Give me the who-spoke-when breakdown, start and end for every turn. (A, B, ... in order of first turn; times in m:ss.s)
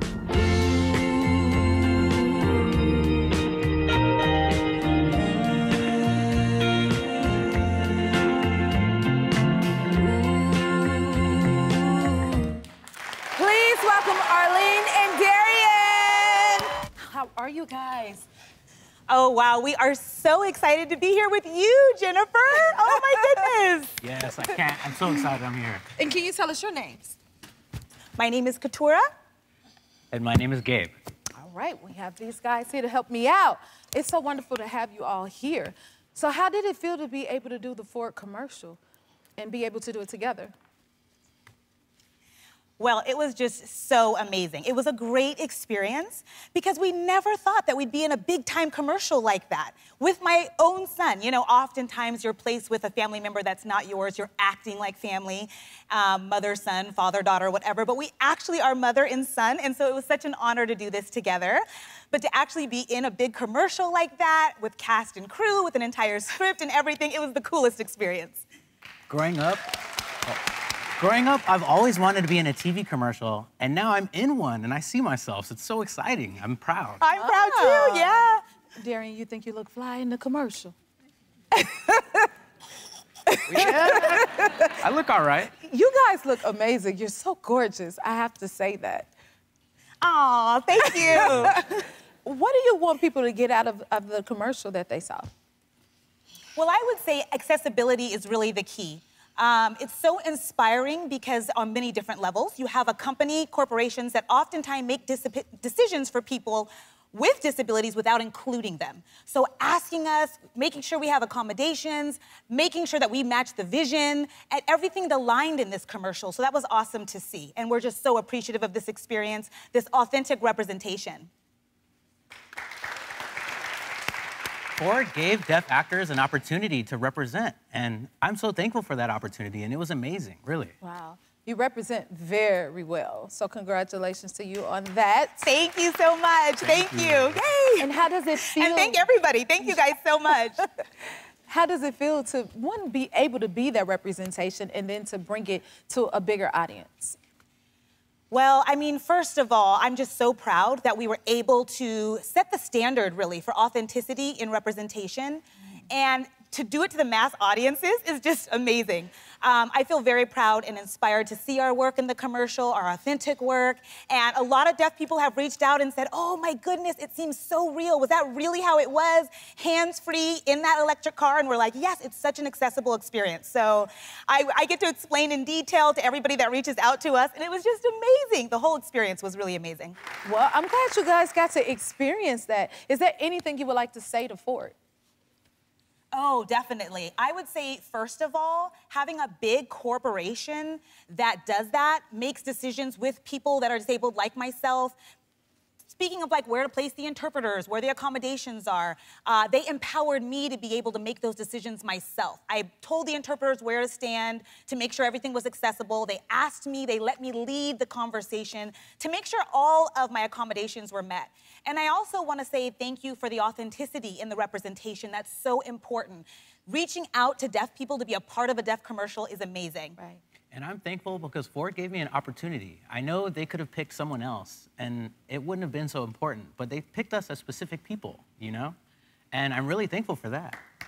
0:13.4-0:18.3 A
0:19.1-0:23.9 B
0:22.7-0:23.4 A
0:24.0-0:25.8 C
0:24.3-0:25.3 A
0:26.0-0:27.2 A
0:28.2-0:29.1 B
0:30.1-0:31.0 C
0:31.4-0:38.8 A
0:39.4-0:40.5 A
0:42.8-1:08.4 B
1:09.1-1:09.6 C
1:11.0-1:17.0 C
1:17.0-1:18.4 B
1:17.1-1:18.2 A
1:18.8-1:20.8 A
1:21.5-1:22.3 A
1:23.3-1:24.7 A
1:23.5-1:25.5 C
1:25.6-1:29.1 A
1:30.0-1:31.6 B
1:30.9-1:35.3 A
1:31.1-1:31.6 C
1:36.6-2:01.3 B
2:04.8-2:10.8 C
2:10.8-2:15.4 A
2:15.4-2:17.9 B
2:16.6-2:17.4 C
2:17.8-2:19.1 A
2:18.5-2:20.6 B
2:21.5-2:27.2 A
2:28.3-3:00.0 B
3:00.2-3:04.8 A
3:06.1-3:15.0 B
3:16.0-3:40.0 B
3:40.5-3:48.8 C
3:49.3-3:50.6 C